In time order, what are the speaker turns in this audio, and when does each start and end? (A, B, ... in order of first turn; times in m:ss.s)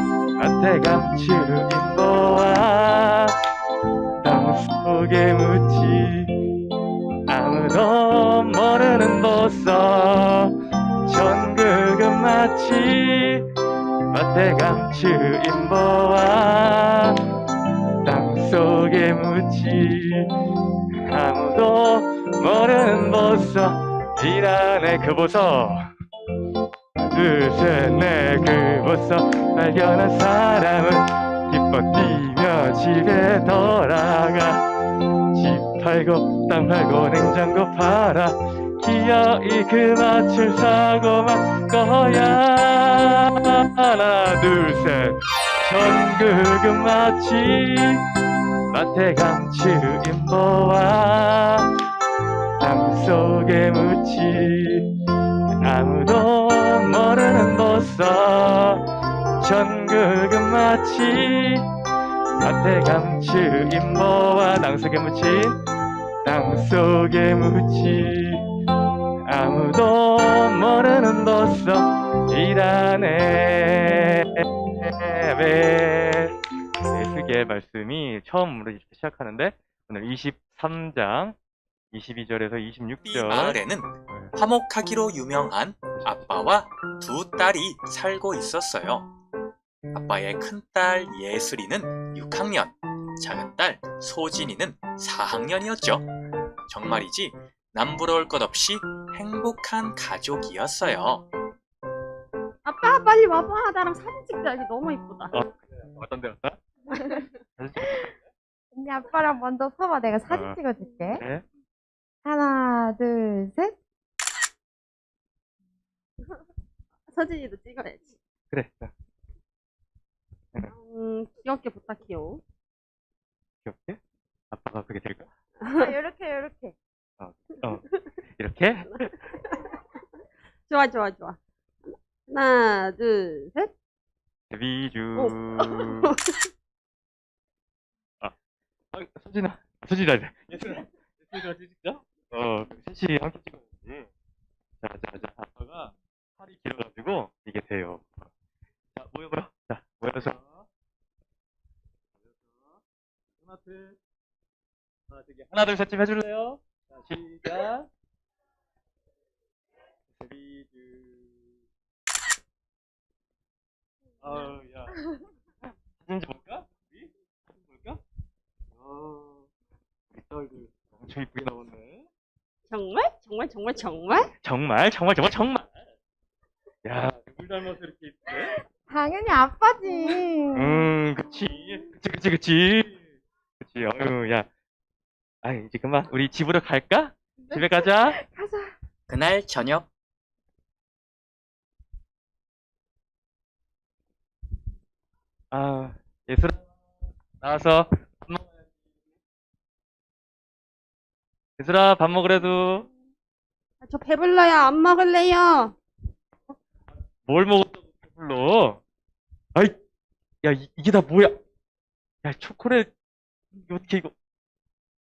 0:00.4-0:03.3 A
0:04.2-0:06.3 A
0:07.3-0:10.5 A
0:11.0-0:13.4 A
0:14.1-0:17.2 A
0:18.0-0:20.3 A
0:21.1-0:25.8 A
0:27.1-0:34.6 A
0:35.3-0:48.0 A
0:48.7-0:51.7 A
0:52.6-0:54.8 A
0:55.6-0:58.8 A
0:59.4-1:01.6 A
1:02.4-1:05.6 A
1:06.2-1:08.4 A
1:09.2-1:16.4 A
1:16.9-1:21.4 A
1:21.9-1:24.3 A
1:23.0-1:29.1 B
1:29.9-1:36.1 B
1:36.7-1:41.2 B
1:42.6-1:45.4 C
1:45.3-1:46.6 A
1:47.6-1:48.1 A
1:48.7-1:51.2 D
1:50.3-1:50.6 A
1:51.2-1:51.4 A
1:52.2-1:53.7 D
1:57.1-1:58.2 C
1:58.5-1:58.9 A
2:00.7-2:02.4 C
2:03.6-2:04.0 A
2:04.5-2:05.3 A
2:05.6-2:05.9 C
2:05.8-2:06.8 D
2:07.2-2:07.8 A
2:08.4-2:09.1 A
2:08.8-2:09.6 C
2:10.7-2:13.7 C
2:14.5-2:16.1 A
2:15.2-2:16.4 C
2:18.9-2:24.1 A
2:24.8-2:28.1 A
2:29.0-2:30.6 A
2:32.3-2:32.6 A
2:33.4-2:34.0 A
2:35.1-2:37.9 A
2:40.1-2:41.4 A
2:44.2-2:45.0 A
2:46.0-2:48.0 A
2:48.8-2:49.4 A
2:50.1-2:52.0 A
2:52.7-2:54.3 C
2:54.4-2:55.7 A
2:56.8-2:58.6 A
2:58.6-3:00.9 D
3:00.5-3:03.0 A
3:03.6-3:04.5 A
3:05.4-3:08.2 A
3:07.5-3:08.7 D
3:09.1-3:09.9 B
3:15.5-3:16.6 A
3:17.4-3:18.5 A
3:21.6-3:22.8 A
3:23.8-3:25.7 C
3:27.2-3:28.8 A
3:30.4-3:31.3 A
3:32.2-3:32.9 A
3:33.5-3:34.1 A